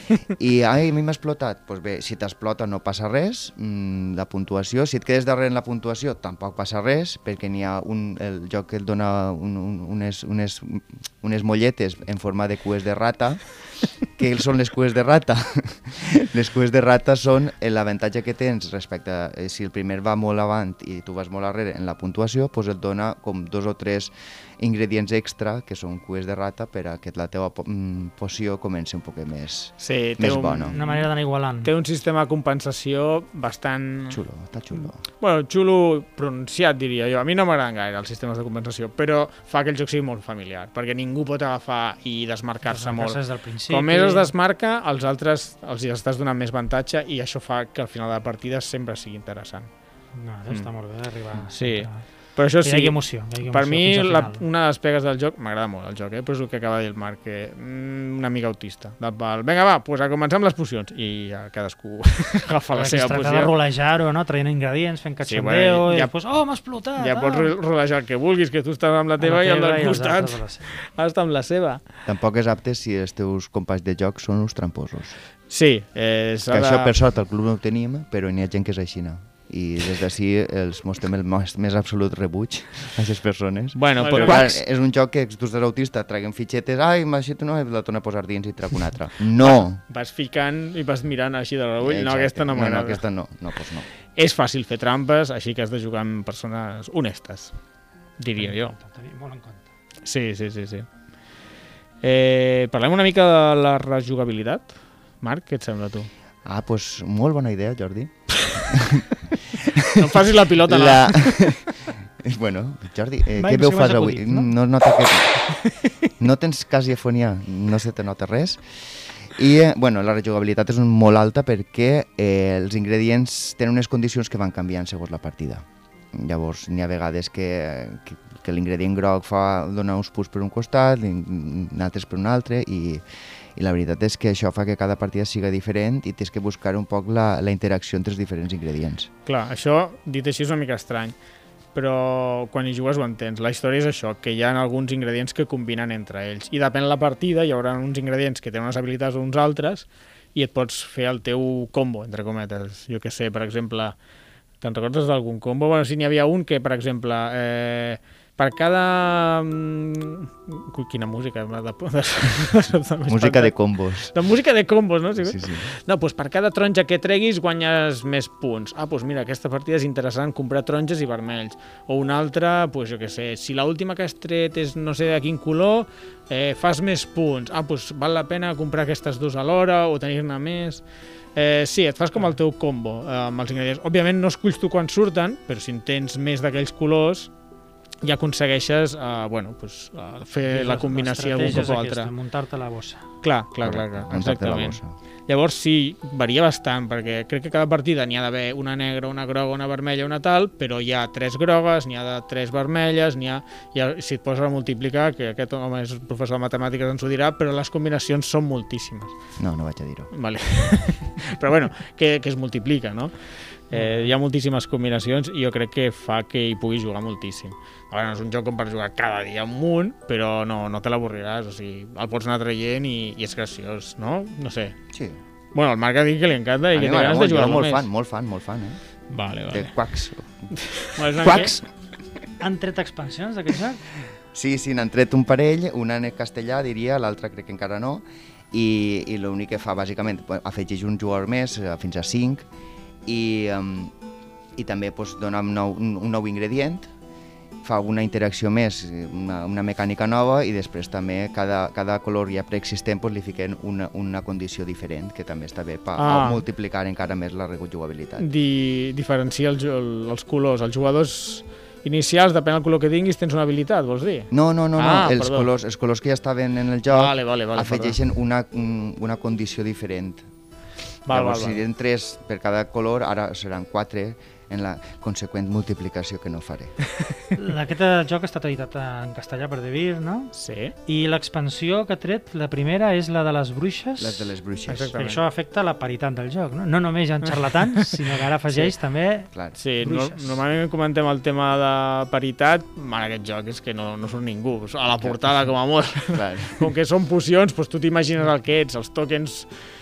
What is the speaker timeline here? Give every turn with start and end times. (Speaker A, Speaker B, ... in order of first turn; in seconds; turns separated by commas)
Speaker A: 0.2-13.4, Speaker A: 14.2-30.8, Speaker B: 29.8-31.1, Speaker C: 30.6-31.7, Speaker B: 31.6-34.2, Speaker A: 34.1-35.0, Speaker B: 35.2-49.7, Speaker C: 42.6-44.3, Speaker C: 50.1-52.0, Speaker B: 51.4-63.5, Speaker C: 52.6-54.4, Speaker C: 62.7-67.5, Speaker B: 65.2-66.1, Speaker B: 67.0-71.8, Speaker C: 69.2-70.7, Speaker A: 72.0-75.2, Speaker B: 75.5-77.0, Speaker A: 76.5-89.8, Speaker B: 83.8-84.6, Speaker B: 89.4-93.0, Speaker A: 91.8-93.9, Speaker B: 94.2-97.5, Speaker B: 98.2-98.7, Speaker C: 98.4-99.7, Speaker B: 100.0-100.8, Speaker B: 102.0-106.1, Speaker A: 106.4-108.1, Speaker A: 108.7-115.3, Speaker B: 109.9-111.6, Speaker C: 113.3-114.5, Speaker A: 116.2-118.6, Speaker A: 119.3-133.0, Speaker A: 133.6-139.1, Speaker B: 139.2-141.2, Speaker B: 141.7-153.9, Speaker B: 154.6-180.8, Speaker A: 163.1-164.1, Speaker A: 165.2-165.7, Speaker B: 181.3-187.3, Speaker B: 188.0-192.1, Speaker C: 190.4-193.1, Speaker B: 193.2-209.2, Speaker A: 193.6-194.9, Speaker A: 209.4-210.1, Speaker B: 210.1-224.8, Speaker C: 213.7-214.1, Speaker A: 224.9-225.2, Speaker B: 225.5-227.9, Speaker A: 226.7-228.8, Speaker B: 229.1-229.7, Speaker A: 229.5-230.5, Speaker B: 230.6-231.6, Speaker A: 231.1-231.6, Speaker C: 232.4-233.8, Speaker A: 234.3-242.4, Speaker A: 243.1-243.9, Speaker A: 244.6-246.9, Speaker A: 247.6-258.3, Speaker B: 255.9-256.4, Speaker B: 258.2-265.5, Speaker A: 264.3-270.2, Speaker B: 266.9-268.0, Speaker B: 271.1-271.6, Speaker A: 271.1-276.7, Speaker C: 277.4-280.3, Speaker B: 280.3-280.7, Speaker C: 280.9-284.3, Speaker A: 284.0-284.9, Speaker B: 284.7-285.2, Speaker C: 284.9-290.4, Speaker A: 289.3-289.6, Speaker B: 289.6-299.5, Speaker A: 296.1-296.6